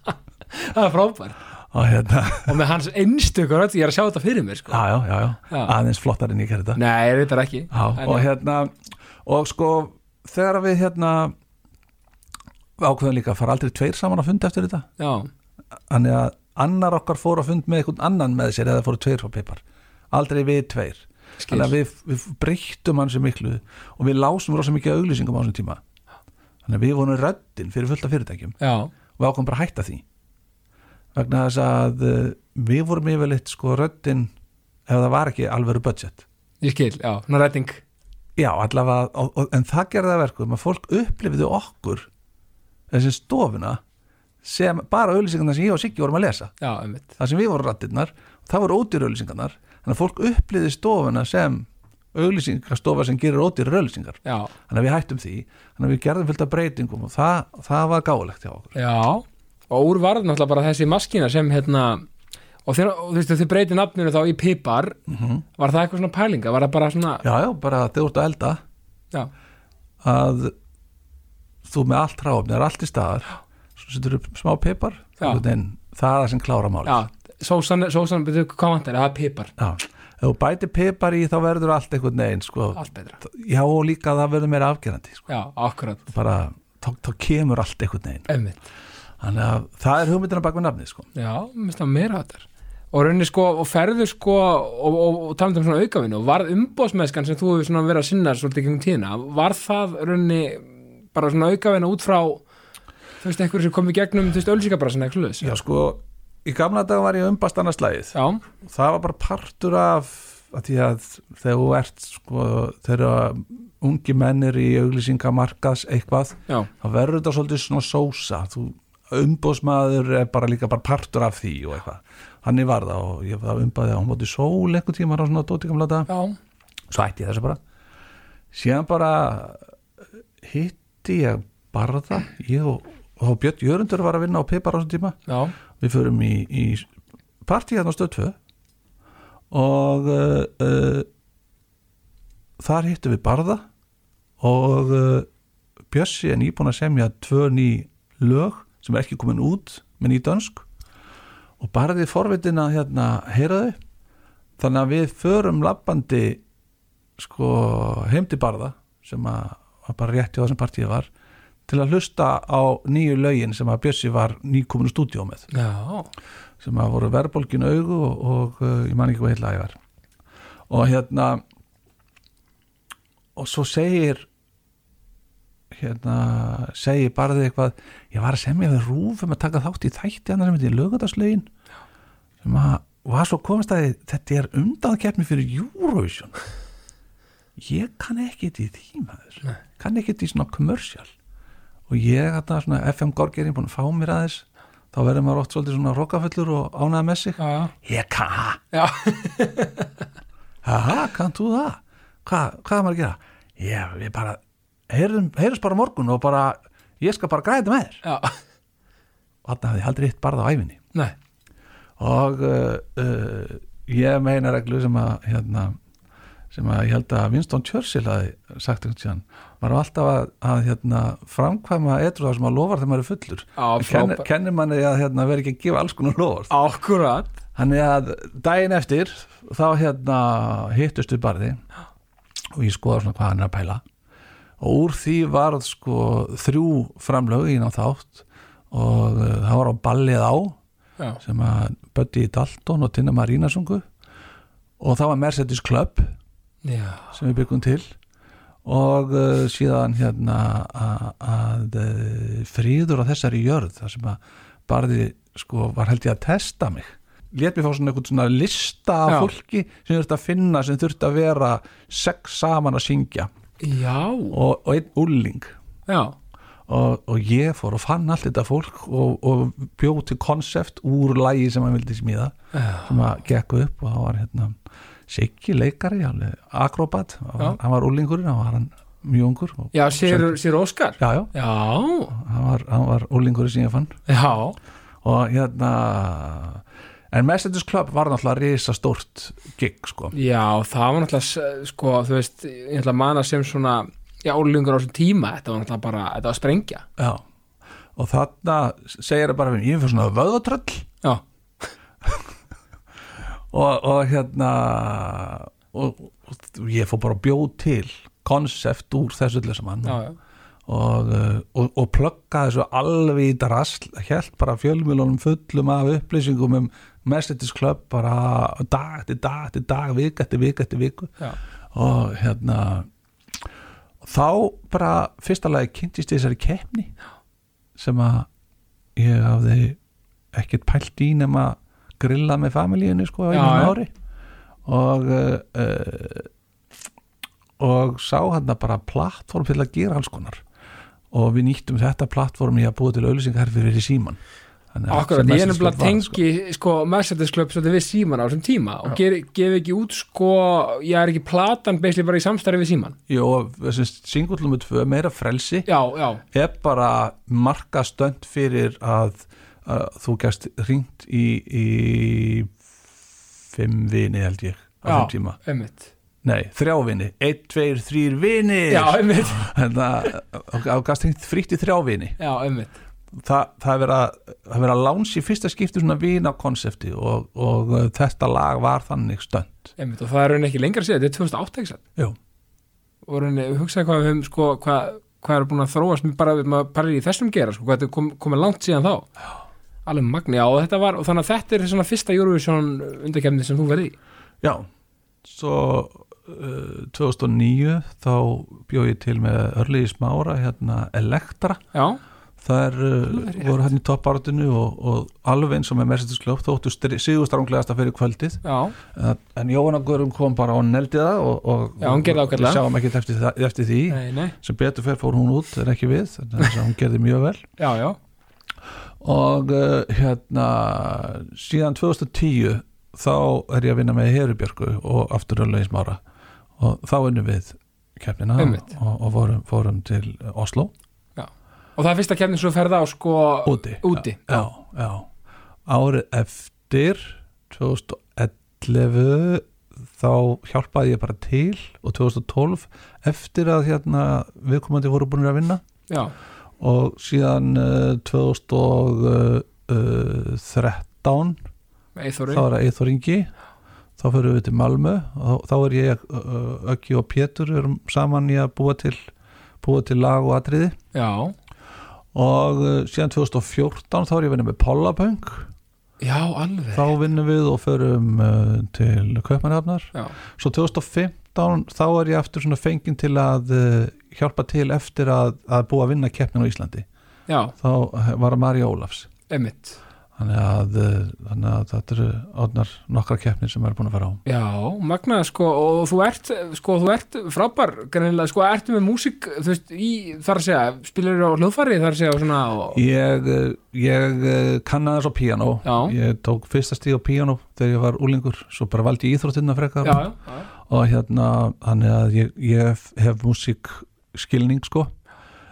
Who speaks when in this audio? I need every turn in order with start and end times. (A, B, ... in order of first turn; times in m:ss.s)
0:00.5-0:01.4 A
0:01.7-0:02.5 B
0:02.4-0:04.8 A
0:04.7-0:06.8 B
0:05.5-0:05.7 A
0:06.7-0:08.3 A
0:07.7-0:11.3 B
0:12.8-0:14.9 B
0:15.0-0:15.3 A
0:15.9-0:25.8 B
0:21.4-0:21.7 A
0:26.6-0:28.6 B
0:28.6-0:28.9 A
0:29.2-0:30.0 B
0:31.1-0:34.3 B
0:34.9-0:36.2 B
0:36.6-0:37.8 A
0:38.4-0:42.1 B
0:42.9-0:43.8 B
0:44.4-0:46.5 B
0:46.6-0:47.1 A
0:47.2-0:58.7 B
0:54.2-0:54.5 A
0:58.7-1:02.0 A
1:02.6-1:05.0 A
1:05.1-1:05.4 B
1:05.6-1:07.2 A
1:07.2-1:08.6 B
1:10.0-1:10.5 B
1:11.6-1:17.0 B
1:16.8-1:19.5 A
1:19.6-1:25.3 B
1:22.7-1:23.2 A
1:25.3-1:26.1 A
1:26.1-1:28.3 B
1:28.3-1:28.6 A
1:29.2-1:31.1 B
1:31.1-1:42.4 A
1:43.2-1:45.6 A
1:45.4-2:06.1 B
1:48.1-1:48.4 A
2:06.1-2:06.4 A
2:06.9-2:07.6 B
2:08.5-2:09.6 B
2:10.4-2:15.2 B
2:15.3-2:15.5 A
2:15.8-2:16.9 B
2:17.4-2:18.4 B
2:19.5-2:21.1 B
2:22.6-2:23.6 B
2:24.4-2:25.3 B
2:25.9-2:30.6 B
2:31.6-2:33.8 B
2:34.6-2:36.4 B
2:37.2-2:41.1 B
2:41.7-2:45.5 B
2:45.5-2:46.1 A
2:46.6-2:49.8 B
2:50.7-2:51.4 B
2:53.4-2:54.3 B
2:55.7-3:01.5 B
3:02.4-3:06.3 B
3:07.6-3:11.1 B
3:11.9-3:18.6 B
3:17.4-3:17.7 A
3:18.7-3:19.9 A
3:20.6-3:28.0 B
3:28.0-3:28.4 A
3:29.4-3:30.8 B
3:32.0-3:35.8 B
3:36.5-3:46.5 B
3:43.6-3:44.2 A
3:46.5-3:47.3 A
3:47.5-3:51.6 B
3:52.5-3:53.8 B
3:54.6-4:00.6 B
4:01.2-4:03.8 B
4:04.8-4:06.1 B
4:06.6-4:07.1 A
4:07.1-4:07.9 B
4:08.6-4:23.3 B
4:23.6-4:24.4 A
4:24.3-4:25.5 B
4:25.9-4:26.1 A
4:26.7-4:34.6 B
4:32.5-4:32.9 A
4:35.1-4:40.4 B
4:39.7-4:42.1 A
4:41.0-4:41.3 B
4:42.1-4:43.9 B
4:44.1-4:44.6 A
4:45.0-4:50.1 B
4:50.1-4:56.8 A
4:57.0-4:57.2 B
4:58.0-5:00.9 B
5:03.5-5:10.0 B
5:09.8-5:10.2 A
5:10.7-5:21.1 B
5:21.7-5:22.9 B
5:24.0-5:26.9 B
5:27.8-5:28.3 B
5:29.0-5:29.8 B
5:30.3-5:33.9 B
5:33.3-5:33.8 A
5:34.6-5:36.3 B
5:37.6-5:40.4 B
5:41.1-5:44.2 B
5:44.7-5:46.2 B
5:44.9-5:53.0 A
5:53.1-5:55.7 B
5:55.6-5:56.2 A
5:56.3-6:02.5 B
6:03.5-6:05.4 B
6:04.8-6:05.9 A
6:06.2-6:12.2 B
6:08.7-6:09.4 A
6:12.2-6:12.8 A
6:13.1-6:19.7 B
6:19.8-6:21.8 A
6:23.0-6:29.1 A
6:29.8-6:33.9 A
6:35.2-6:41.6 B
6:41.7-6:42.0 A
6:42.4-6:57.5 B
6:43.1-6:43.5 A
6:48.4-6:48.7 A
6:51.8-6:52.6 A
6:53.9-6:54.4 A
6:57.6-6:58.0 A
6:59.0-7:06.0 B
7:06.6-7:10.7 B
7:08.4-7:08.7 A
7:11.2-7:14.5 A
7:13.4-7:15.1 B
7:15.7-7:19.4 B
7:20.0-7:25.6 B
7:25.9-7:26.1 A
7:26.6-7:31.4 B
7:32.0-7:32.5 A
7:32.3-7:33.3 B
7:34.0-7:39.0 B
7:39.6-7:40.8 B
7:40.9-7:41.3 A
7:42.1-7:45.5 B
7:46.0-7:46.9 A
7:46.7-7:56.8 B
7:57.3-7:57.5 A
7:57.6-7:59.1 B
7:59.3-7:59.8 A
8:00.2-8:04.2 B
8:04.2-8:12.8 A
8:12.7-8:20.1 B
8:15.6-8:15.9 A
8:19.8-8:20.5 A
8:20.6-8:24.9 B